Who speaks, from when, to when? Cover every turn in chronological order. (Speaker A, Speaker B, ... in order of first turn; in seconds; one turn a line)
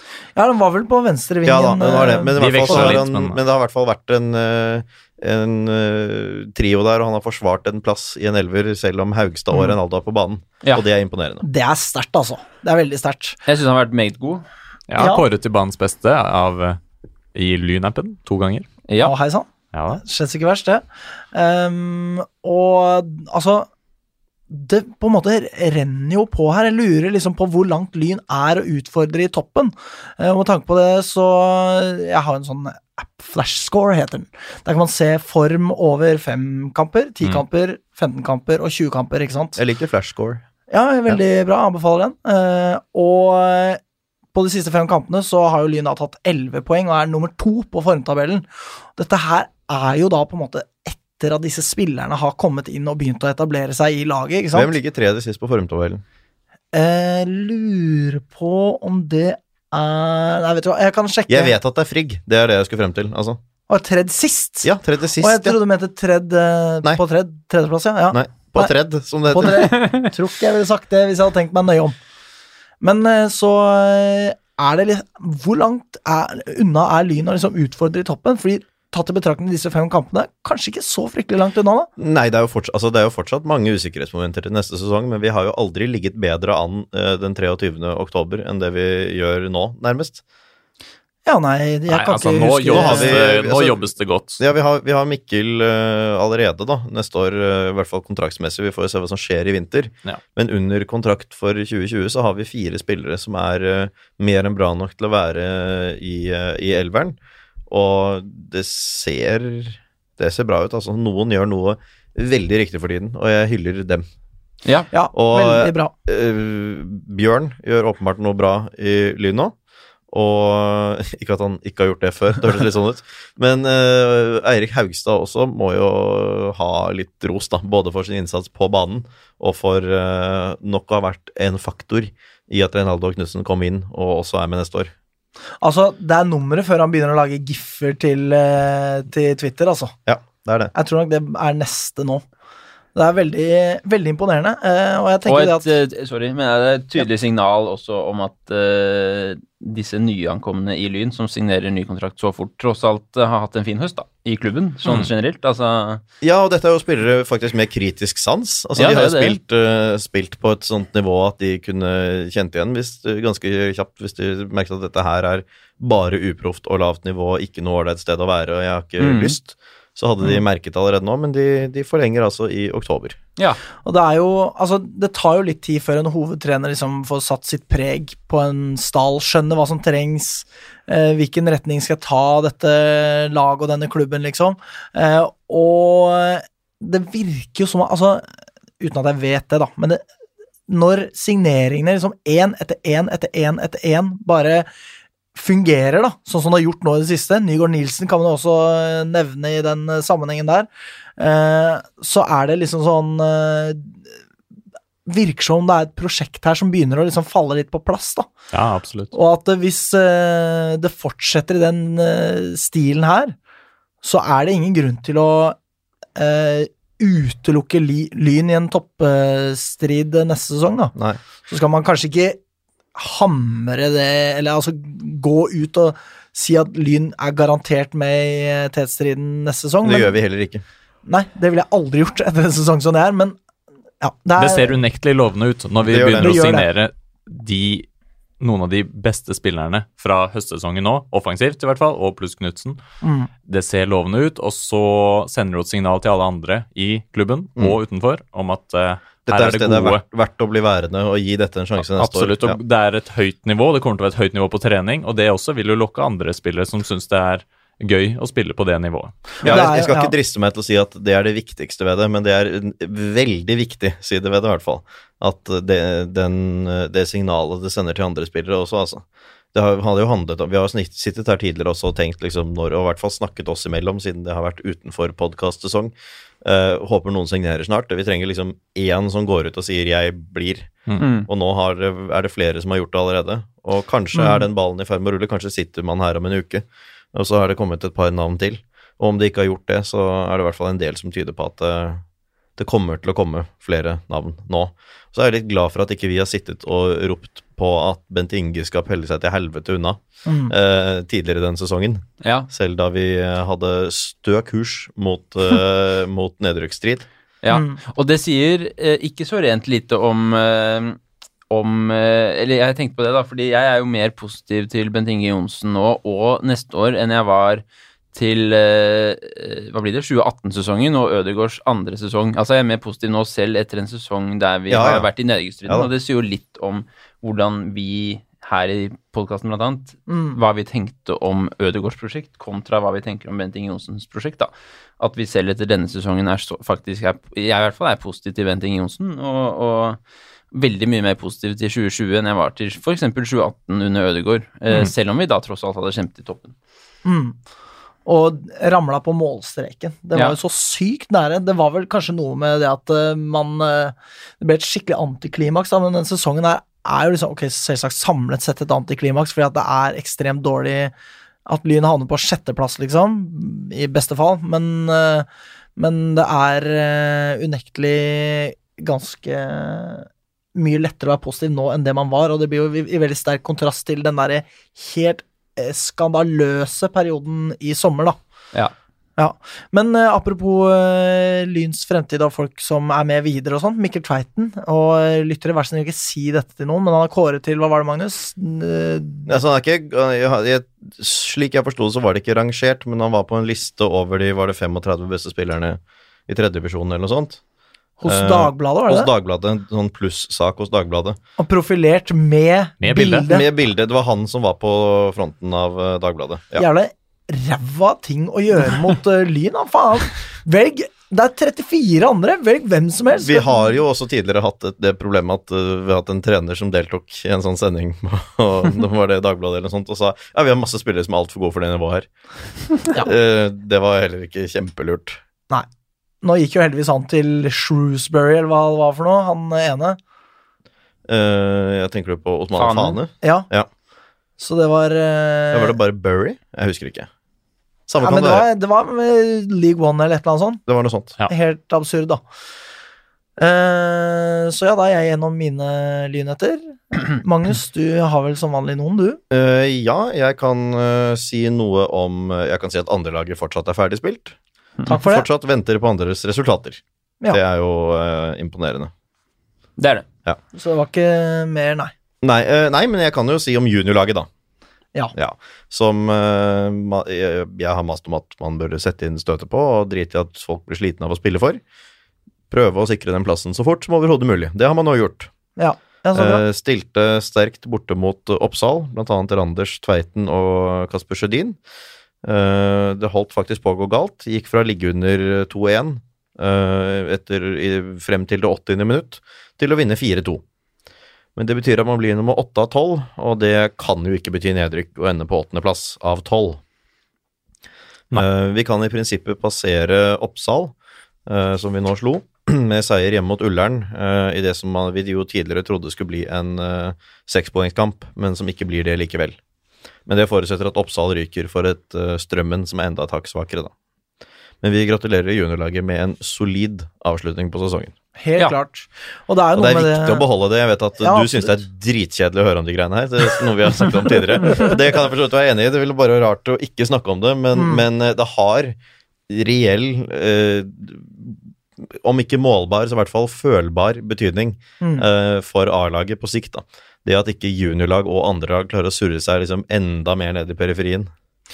Speaker A: 0.3-3.0
Speaker B: 1.4-11.4
Speaker C: 2.4-3.4
Speaker A: 11.4-13.4
Speaker D: 13.4-14.4
Speaker C: 14.9-16.8
Speaker A: 15.0-15.2
Speaker C: 17.3-18.7
Speaker D: 18.9-19.1
Speaker A: 19.0-23.7
Speaker C: 19.7-20.0
Speaker A: 24.5-39.6
Speaker B: 39.5-40.4
Speaker A: 40.7-43.8
Speaker A: 44.3-54.7
Speaker B: 54.5-56.0
Speaker A: 56.7-61.5
Speaker B: 61.3-63.4
Speaker A: 63.7-68.7
Speaker B: 64.6-65.5
Speaker B: 68.1-69.7
Speaker A: 69.3-72.0
Speaker D: 69.7-70.0
Speaker A: 72.8-81.9
Speaker B: 82.0-90.2
Speaker A: 91.2-93.2
Speaker C: 91.9-94.4
Speaker B: 92.7-107.2
Speaker B: 107.7-114.0
Speaker A: 114.9-115.9
Speaker B: 115.1-119.5
Speaker B: 120.1-134.9
Speaker A: 135.6-139.9
Speaker B: 140.1-140.7
Speaker A: 140.7-142.2
Speaker A: 142.9-145.7
Speaker D: 145.2-156.0
Speaker C: 154.8-155.1
Speaker B: 156.2-173.2
Speaker D: 158.8-159.4
Speaker D: 169.0-169.3
Speaker A: 173.8-188.2
Speaker A: 188.8-190.0
Speaker A: 190.7-194.7
Speaker A: 195.3-204.0
Speaker A: 205.1-208.3
Speaker C: 208.5-209.1
Speaker A: 209.1-213.3
Speaker A: 214.0-215.6
Speaker A: 216.2-220.9
Speaker B: 220.9-221.2
Speaker A: 221.5-222.4
Speaker A: 222.9-230.2
Speaker B: 229.8-230.6
Speaker A: 231.1-233.3
Speaker A: 234.0-234.8
Speaker C: 234.4-237.9
Speaker B: 235.8-236.4
Speaker A: 236.2-236.7
Speaker C: 238.4-242.8
Speaker A: 243.0-243.3
Speaker C: 243.5-250.0
Speaker B: 249.3-252.6
Speaker C: 251.9-259.6
Speaker A: 259.4-260.1
Speaker B: 259.4-292.0
Speaker D: 281.0-281.3
Speaker A: 284.1-284.4
Speaker B: 292.6-307.1
Speaker A: 300.2-300.5
Speaker D: 302.2-302.5
Speaker D: 307.4-311.0
Speaker A: 307.5-307.8
Speaker D: 311.5-340.0
Speaker B: 324.7-325.1
Speaker A: 330.1-330.4
Speaker D: 340.5-346.5
Speaker A: 347.0-347.4
Speaker A: 348.1-360.9
Speaker A: 361.4-378.2
Speaker A: 379.2-389.4
Speaker B: 389.2-397.4
Speaker A: 398.0-399.1
Speaker B: 398.0-401.2
Speaker A: 401.4-403.4
Speaker C: 402.8-403.3
Speaker B: 403.1-406.6
Speaker A: 406.6-413.6
Speaker B: 413.2-422.1
Speaker B: 422.9-425.2
Speaker A: 426.2-430.0
Speaker B: 431.1-433.7
Speaker D: 432.6-433.0
Speaker A: 433.2-433.5
Speaker A: 434.4-435.8
Speaker B: 435.5-437.1
Speaker B: 437.9-438.4
Speaker A: 438.0-440.6
Speaker B: 440.7-441.1
Speaker A: 441.3-442.2
Speaker A: 443.4-449.2
Speaker B: 449.3-454.4
Speaker A: 454.9-455.2
Speaker B: 454.9-458.9
Speaker D: 459.8-460.1
Speaker A: 460.5-461.9
Speaker B: 462.2-464.3
Speaker B: 465.1-471.6
Speaker B: 472.5-475.3
Speaker A: 475.6-476.4
Speaker B: 476.1-481.6
Speaker B: 482.2-490.4
Speaker B: 491.4-496.6
Speaker B: 498.1-500.7
Speaker B: 501.3-509.4
Speaker B: 510.1-513.7
Speaker B: 514.6-517.9
Speaker A: 518.2-520.3
Speaker B: 519.5-528.8
Speaker A: 521.0-521.6
Speaker A: 527.5-527.8
Speaker B: 529.3-531.4
Speaker B: 531.9-541.1
Speaker A: 534.8-535.0